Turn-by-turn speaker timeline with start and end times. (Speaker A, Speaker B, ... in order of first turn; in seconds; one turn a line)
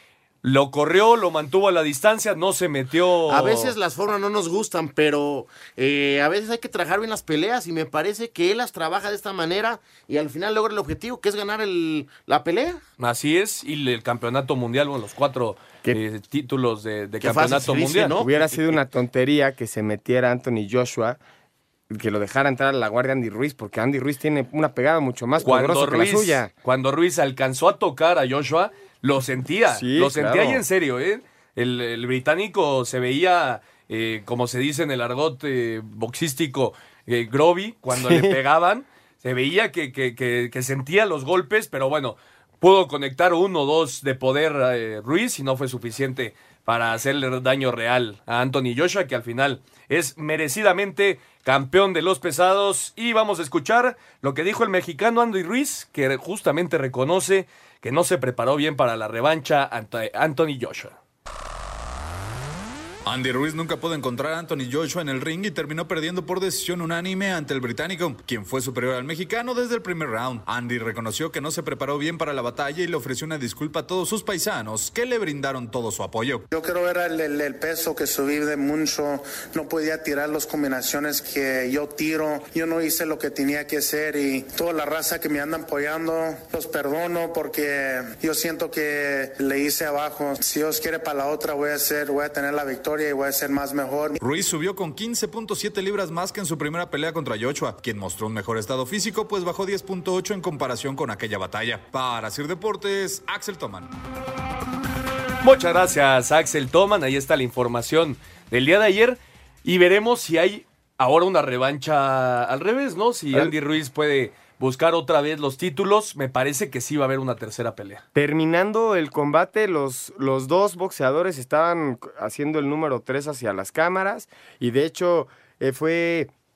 Speaker A: 0.4-3.7
Speaker B: 3.3-12.8
Speaker A: 13.0-18.2
Speaker B: 17.2-18.4
Speaker C: 17.9-21.2
Speaker C: 21.9-26.5
Speaker A: 25.4-60.9
Speaker C: 29.7-30.6
Speaker C: 37.9-38.4
Speaker D: 63.0-76.5
Speaker E: 76.5-94.2
Speaker D: 94.2-103.9
Speaker A: 105.4-118.0
Speaker C: 118.1-126.3